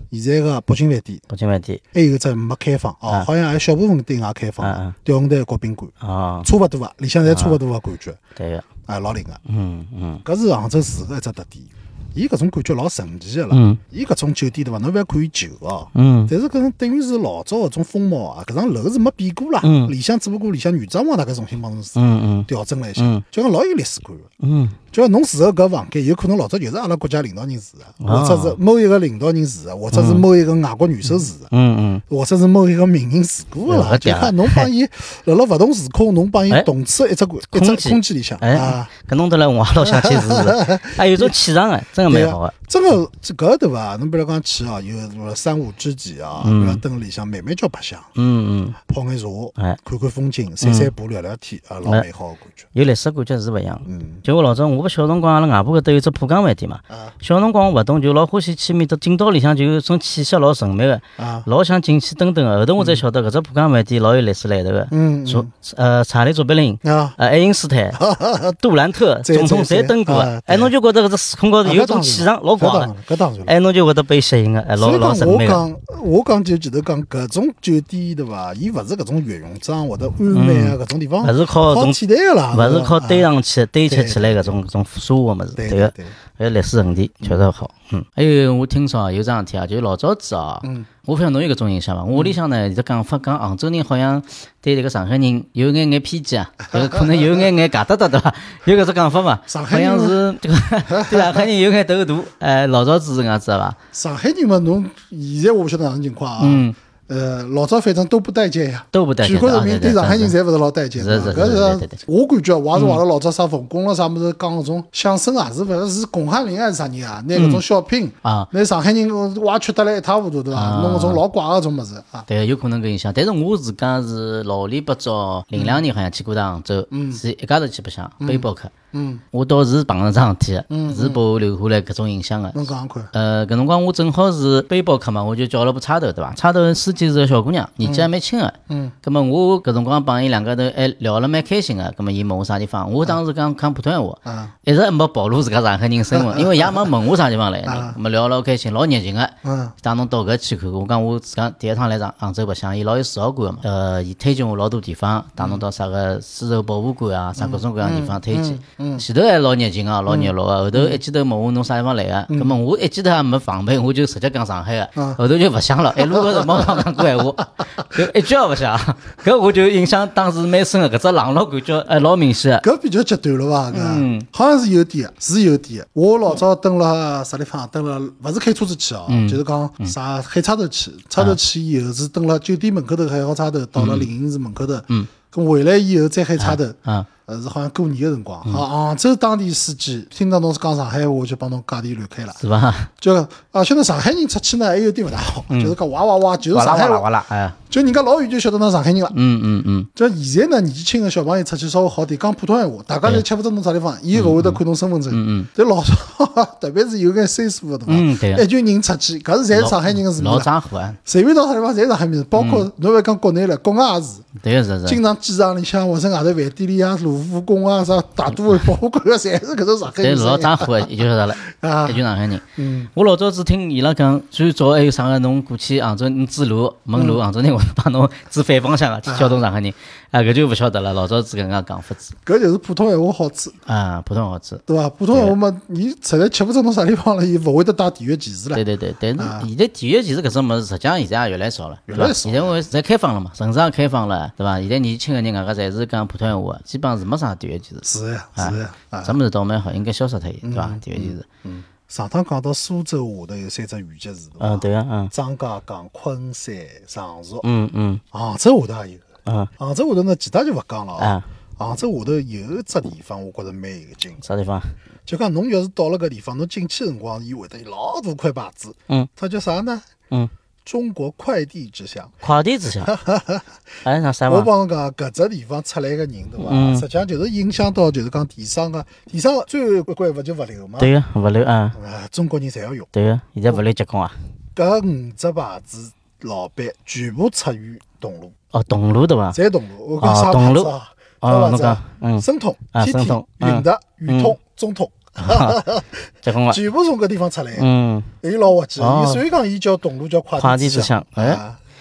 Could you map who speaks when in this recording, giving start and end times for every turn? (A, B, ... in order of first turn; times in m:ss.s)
0:00.1-0:01.2 A
0:01.3-0:01.8 B
0:01.9-0:05.9 A
0:04.6-0:04.9 B
0:06.0-0:06.5 B
0:06.4-0:08.2 A
0:07.2-0:07.6 B
0:08.4-0:08.7 B
0:08.8-0:09.4 A
0:09.4-0:10.2 B
0:10.2-0:24.3 A
0:13.5-0:13.8 B
0:15.9-0:16.3 B
0:19.6-0:19.9 B
0:22.0-0:23.2 B
0:24.4-0:24.8 B
0:24.9-0:31.5 A
0:28.0-0:28.6 B
0:29.9-0:30.2 B
0:31.5-0:32.0 B
0:32.1-0:38.9 A
0:33.7-0:34.7 B
0:37.5-0:42.5 B
0:39.8-0:41.3 A
0:42.1-0:48.1 A
0:46.4-0:46.8 B
0:48.2-0:48.8 B
0:48.8-0:52.7 A
0:50.6-0:50.9 B
0:52.7-1:08.0 B
0:53.8-0:54.2 A
0:56.9-0:57.1 A
1:01.2-1:01.5 A
1:04.9-1:05.5 A
1:06.8-1:07.2 A
1:07.9-1:08.6 A
1:08.6-1:12.9 B
1:09.2-1:10.7 A
1:11.6-1:13.5 A
1:13.4-1:15.6 B
1:14.8-1:23.3 A
1:20.3-1:22.0 B
1:22.5-1:43.8 B
1:23.8-1:24.6 A
1:25.6-1:26.1 A
1:30.6-1:30.9 A
1:36.7-1:37.4 A
1:39.5-1:40.2 A
1:40.9-1:41.4 A
1:43.9-2:02.3 A
1:46.4-1:46.7 B
1:48.9-1:50.4 B
1:51.0-1:52.0 B
1:52.7-1:53.0 B
1:57.3-1:57.6 B
1:58.2-1:58.5 B
2:00.5-2:01.2 B
2:02.3-2:08.7 B
2:05.5-2:05.8 A
2:06.9-2:07.2 A
2:08.2-2:09.2 A
2:09.3-2:52.6 B
2:10.7-2:11.2 A
2:12.5-2:13.1 A
2:17.8-2:18.1 A
2:18.7-2:18.9 A
2:24.2-2:24.5 A
2:26.1-2:26.9 A
2:27.6-2:28.0 A
2:29.4-2:29.7 A
2:35.4-2:35.6 A
2:37.4-2:39.0 A
2:40.1-2:41.0 A
2:42.3-2:42.6 A
2:45.9-2:47.2 A
2:52.6-3:12.4 A
2:53.7-2:54.3 B
2:59.1-2:59.9 B
3:03.7-3:04.1 B
3:06.4-3:07.1 B
3:12.4-3:12.9 B
3:13.0-3:17.1 A
3:15.5-3:15.7 B
3:16.5-3:17.6 B
3:17.7-3:19.2 A
3:19.1-3:19.9 B
3:19.9-3:30.5 A
3:24.1-3:25.5 B
3:27.9-3:28.4 B
3:29.5-3:31.0 B
3:31.0-3:34.3 A
3:32.4-3:32.7 B
3:34.4-3:35.0 B
3:34.8-3:40.9 A
3:40.0-3:52.1 B
3:41.4-3:42.0 A
3:42.5-3:42.9 A
3:46.9-3:47.2 A
3:49.0-3:49.4 A
3:52.2-3:53.6 A
3:53.6-3:55.4 B
3:54.7-3:58.6 A
3:58.5-4:11.2 B
3:59.2-3:59.5 A
4:01.9-4:02.6 A
4:07.8-4:09.2 A
4:10.4-4:17.4 A
4:14.4-4:15.1 B
4:17.4-4:18.0 B
4:18.1-4:19.0 A
4:19.6-4:24.2 A
4:21.0-4:21.2 B
4:24.2-4:24.8 B
4:25.0-4:29.8 A
4:30.6-4:32.2 A
4:32.2-4:32.9 B
4:32.8-4:33.5 A
4:33.8-4:34.5 B
4:34.3-4:40.9 A
4:36.4-4:36.8 B
4:40.8-4:41.8 B
4:41.7-4:42.9 A
4:42.9-4:44.1 B
4:44.5-4:48.3 A
4:48.5-4:49.4 B
4:49.3-4:57.7 A
4:50.0-4:54.4 B
4:55.2-4:55.6 B
4:56.2-4:56.6 B
4:57.5-4:58.1 B
4:58.2-5:01.6 A
4:58.8-4:59.2 B
5:00.4-5:01.4 B